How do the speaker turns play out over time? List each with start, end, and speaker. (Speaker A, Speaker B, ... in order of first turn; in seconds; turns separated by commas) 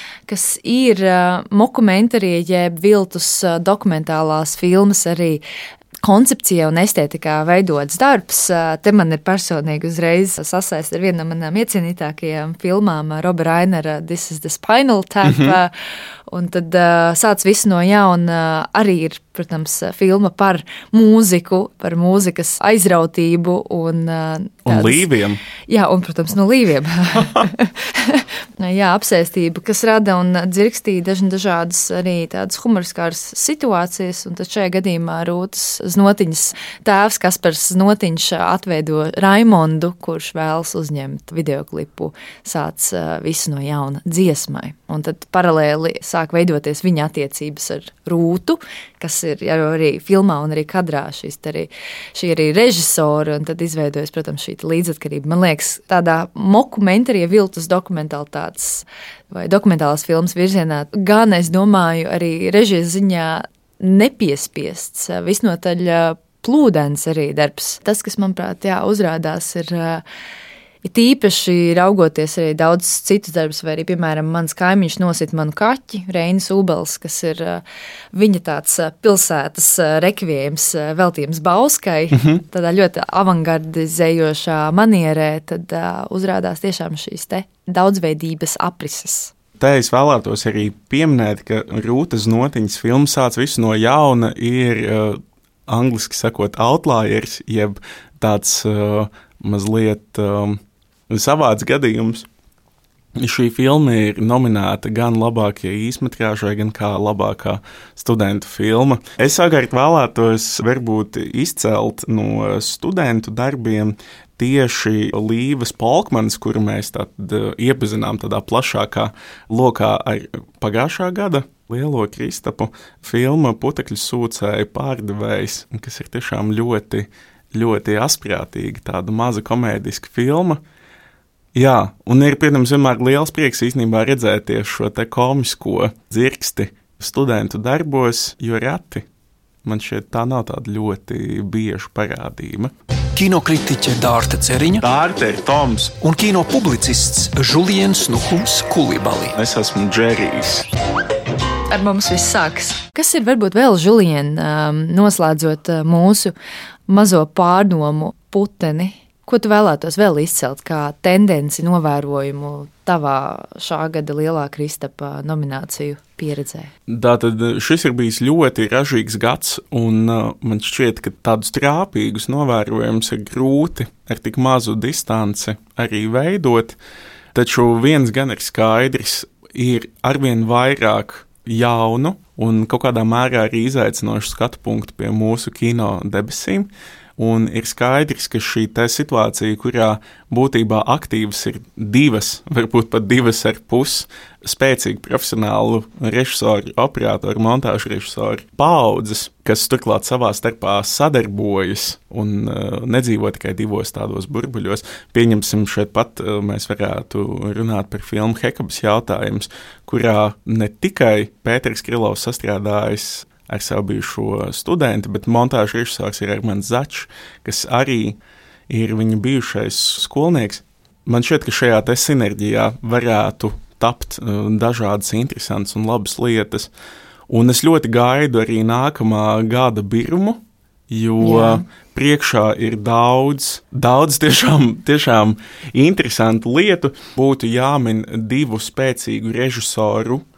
Speaker A: 0.3-5.4, Speaker A: 6.0-15.7, Speaker B: 15.2-15.6, Speaker A: 16.3-25.1, Speaker B: 24.7-25.4, Speaker A: 25.7-70.0, Speaker A: 70.8-89.3, Speaker B: 89.6-102.3, Speaker B: 103.2-130.6, Speaker B: 131.6-139.1, Speaker B: 139.6-142.7, Speaker C: 143.2-144.8, Speaker B: 144.8-145.9, Speaker C: 146.0-149.4, Speaker B: 149.3-150.7, Speaker A: 151.7-156.3, Speaker A: 156.9-166.7, Speaker B: 166.9-176.8, Speaker B: 177.3-218.2, Speaker B: 218.7-226.7, Speaker B: 227.3-240.2, Speaker A: 231.2-231.7